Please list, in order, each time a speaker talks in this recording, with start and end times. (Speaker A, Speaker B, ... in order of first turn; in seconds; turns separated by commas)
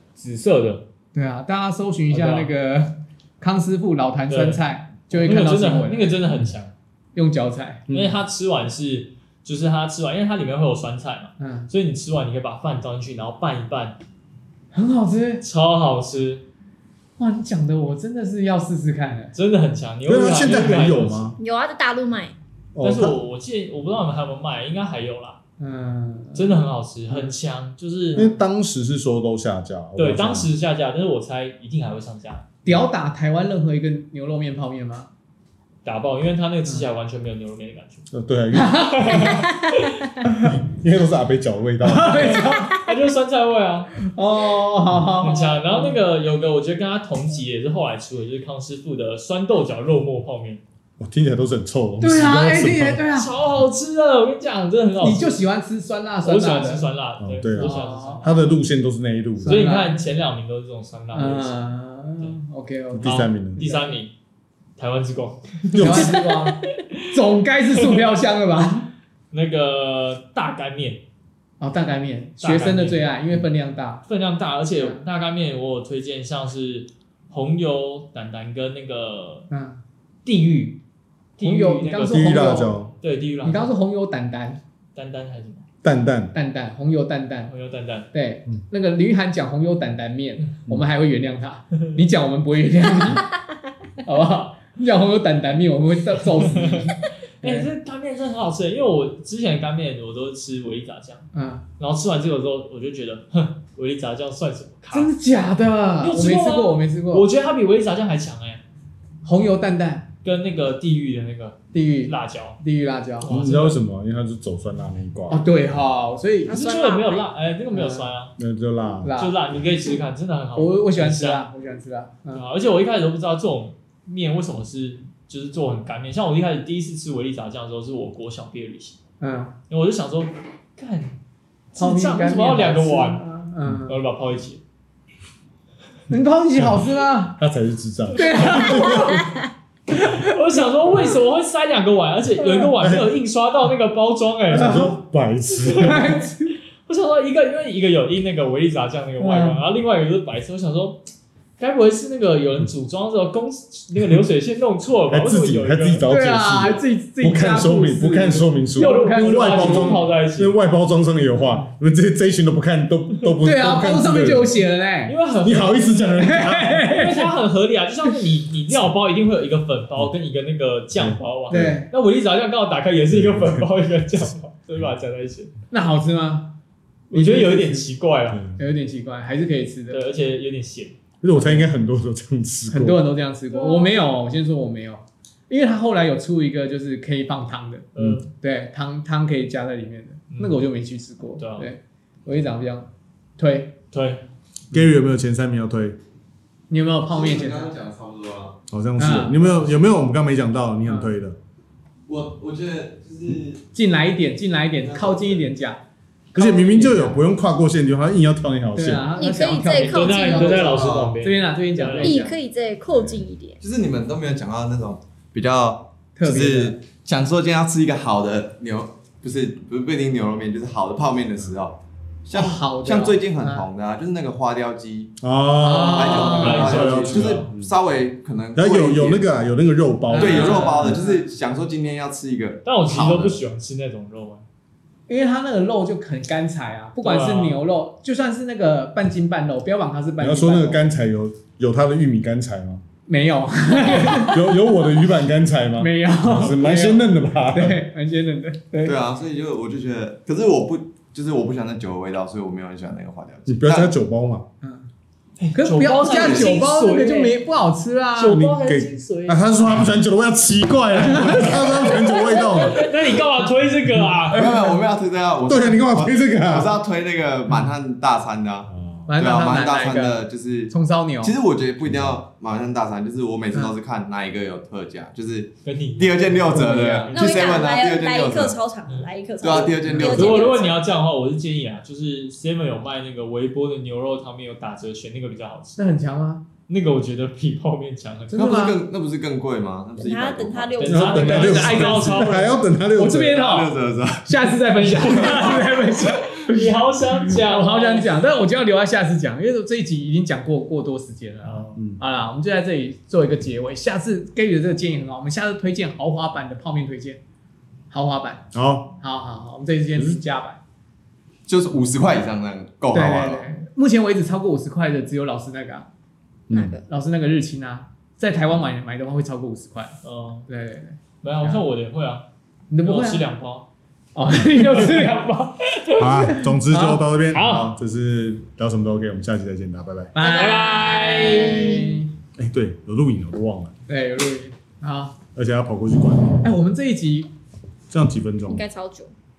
Speaker A: 0.2-0.8, Speaker B: 1.1-6.2, Speaker A: 2.1-2.5, Speaker A: 4.3-6.7, Speaker B: 7.2-7.9, Speaker C: 7.9-8.2, Speaker A: 7.9-14.0, Speaker B: 11.4-11.7, Speaker B: 14.7-15.4, Speaker A: 15.4-16.4, Speaker B: 17.2-19.4, Speaker A: 19.4-21.4, Speaker C: 20.1-21.4, Speaker D: 21.4-22.4, Speaker C: 22.8-23.2, Speaker A: 22.8-25.4, Speaker B: 25.6-27.3, Speaker A: 26.4-28.3, Speaker C: 28.1-30.5, Speaker A: 30.0-32.5, Speaker B: 32.6-35.1, Speaker A: 35.8-38.1, Speaker C: 38.1-39.3, Speaker B: 38.5-39.5, Speaker A: 38.9-40.0, Speaker B: 40.2-40.6, Speaker C: 40.4-42.5, Speaker B: 41.8-42.9, Speaker A: 42.3-44.0, Speaker B: 44.0-46.0, Speaker A: 45.2-50.6, Speaker C: 51.0-53.0, Speaker B: 52.0-53.3, Speaker A: 53.1-55.4, Speaker B: 55.0-56.9, Speaker A: 56.2-58.4, Speaker C: 57.2-59.6, Speaker B: 57.6-58.5, Speaker B: 59.4-60.0, Speaker A: 59.5-61.6, Speaker B: 61.1-64.0, Speaker C: 62.9-63.6, Speaker A: 63.0-64.1, Speaker A: 64.8-67.1, Speaker C: 65.7-66.2, Speaker B: 65.8-68.9, Speaker A: 69.3-71.0, Speaker B: 71.6-74.0, Speaker A: 72.4-73.1, Speaker A: 74.1-79.5, Speaker B: 74.8-75.1, Speaker B: 79.5-79.8, Speaker A: 80.2-80.8, Speaker A: 81.4-83.7, Speaker B: 81.4-82.8, Speaker C: 82.1-82.9, Speaker B: 83.4-84.6, Speaker A: 85.0-85.7, Speaker C: 85.8-86.3, Speaker B: 86.3-87.5, Speaker A: 87.5-88.1, Speaker B: 88.1-93.3, Speaker B: 94.0-97.7, Speaker A: 96.5-96.9, Speaker A: 97.4-101.3, Speaker B: 101.3-101.7, Speaker A: 101.8-105.1, Speaker B: 104.9-107.3, Speaker A: 106.0-108.6, Speaker B: 109.2-110.1, Speaker A: 110.2-112.6, Speaker B: 111.7-113.4, Speaker A: 113.2-113.8, Speaker C: 113.3-115.5, Speaker B: 115.3-116.5, Speaker D: 116.5-117.3, Speaker A: 116.5-118.3, Speaker B: 117.7-118.1, Speaker C: 118.4-119.1, Speaker B: 119.0-119.3, Speaker A: 119.2-121.5, Speaker B: 120.5-122.5, Speaker A: 122.3-129.0, Speaker B: 129.2-129.6, Speaker A: 129.7-131.2, Speaker A: 131.7-133.2, Speaker B: 131.8-134.0, Speaker A: 133.9-134.6, Speaker B: 136.1-137.4, Speaker C: 136.6-139.2, Speaker B: 138.1-141.2, Speaker A: 140.2-144.9, Speaker B: 142.4-142.7, Speaker C: 142.8-143.1, Speaker C: 144.5-146.2, Speaker B: 144.5-144.9, Speaker A: 145.6-146.2, Speaker B: 145.7-146.6, Speaker A: 146.9-151.0, Speaker B: 149.2-149.6, Speaker A: 151.6-156.1, Speaker C: 155.1-164.6, Speaker B: 156.1-160.0, Speaker A: 158.8-160.6, Speaker B: 163.4-165.2, Speaker A: 165.1-175.5, Speaker C: 165.4-166.8, Speaker B: 166.2-167.3, Speaker C: 171.0-171.8, Speaker B: 171.5-171.9, Speaker C: 173.1-173.7, Speaker B: 175.7-176.5, Speaker B: 177.1-177.9, Speaker A: 177.1-178.4, Speaker C: 178.3-178.6, Speaker B: 178.6-180.0, Speaker A: 179.9-181.0, Speaker C: 181.2-183.0, Speaker B: 181.3-181.7, Speaker B: 182.7-187.9, Speaker D: 183.6-183.9, Speaker A: 187.9-188.3, Speaker C: 188.0-188.2, Speaker B: 188.4-193.7, Speaker A: 190.3-190.7, Speaker A: 191.4-191.7, Speaker A: 193.9-194.2, Speaker C: 194.7-196.0, Speaker B: 196.7-197.8, Speaker E: 197.1-198.6, Speaker C: 198.7-201.4, Speaker B: 199.0-199.7, Speaker B: 200.9-201.1, Speaker E: 202.1-203.6, Speaker B: 203.7-205.8, Speaker E: 204.8-205.5, Speaker B: 206.3-207.2, Speaker C: 206.3-209.1, Speaker B: 208.7-212.4, Speaker D: 209.1-210.7, Speaker A: 209.8-212.2, Speaker E: 210.6-211.2, Speaker D: 211.9-213.6, Speaker C: 212.9-213.2, Speaker E: 213.6-225.2, Speaker B: 216.2-216.8, Speaker B: 222.3-223.7, Speaker C: 225.2-227.7, Speaker B: 225.6-226.8, Speaker E: 225.9-229.3, Speaker A: 226.2-227.5, Speaker C: 228.6-230.9, Speaker B: 230.1-231.3, Speaker E: 230.1-233.4, Speaker A: 232.7-234.4, Speaker B: 235.1-240.9, Speaker A: 237.0-237.6, Speaker C: 240.2-242.8, Speaker B: 243.1-244.5, Speaker C: 243.9-247.8, Speaker B: 245.8-249.0, Speaker E: 248.8-253.9, Speaker C: 253.5-254.4, Speaker B: 254.6-254.9, Speaker A: 255.4-257.4, Speaker B: 255.5-258.5, Speaker E: 256.0-256.6, Speaker A: 258.2-259.9, Speaker C: 258.3-262.9, Speaker B: 261.0-262.6, Speaker A: 261.7-264.6, Speaker E: 264.3-278.6, Speaker C: 265.5-266.7, Speaker C: 268.7-269.1, Speaker B: 269.1-271.4, Speaker A: 275.6-277.6, Speaker B: 276.4-277.2, Speaker D: 277.1-280.8, Speaker E: 279.4-280.6, Speaker B: 279.8-280.2, Speaker A: 279.9-285.8, Speaker B: 285.8-286.4, Speaker A: 286.7-288.5, Speaker B: 288.3-288.8, Speaker E: 288.3-291.0, Speaker D: 290.0-291.9, Speaker A: 290.8-292.6, Speaker C: 290.9-293.4, Speaker B: 291.3-307.2, Speaker E: 293.3-294.4, Speaker A: 295.0-298.1, Speaker A: 301.4-301.7, Speaker B: 307.9-308.5, Speaker C: 308.5-308.9, Speaker B: 309.0-310.6, Speaker C: 309.9-310.2, Speaker E: 311.5-313.6, Speaker B: 312.9-315.9, Speaker C: 316.5-316.8, Speaker D: 316.5-316.8, Speaker B: 316.8-321.6, Speaker A: 320.0-320.5, Speaker A: 321.2-322.3, Speaker B: 322.7-323.3, Speaker A: 322.8-323.7, Speaker B: 324.1-327.0, Speaker A: 324.7-325.1, Speaker C: 326.0-330.1, Speaker A: 327.3-327.7, Speaker B: 330.1-332.1, Speaker A: 330.2-331.9, Speaker D: 330.2-331.9, Speaker C: 332.4-333.7, Speaker B: 333.9-335.2, Speaker C: 335.4-336.4, Speaker B: 336.4-337.3, Speaker C: 337.9-338.6, Speaker D: 338.5-339.1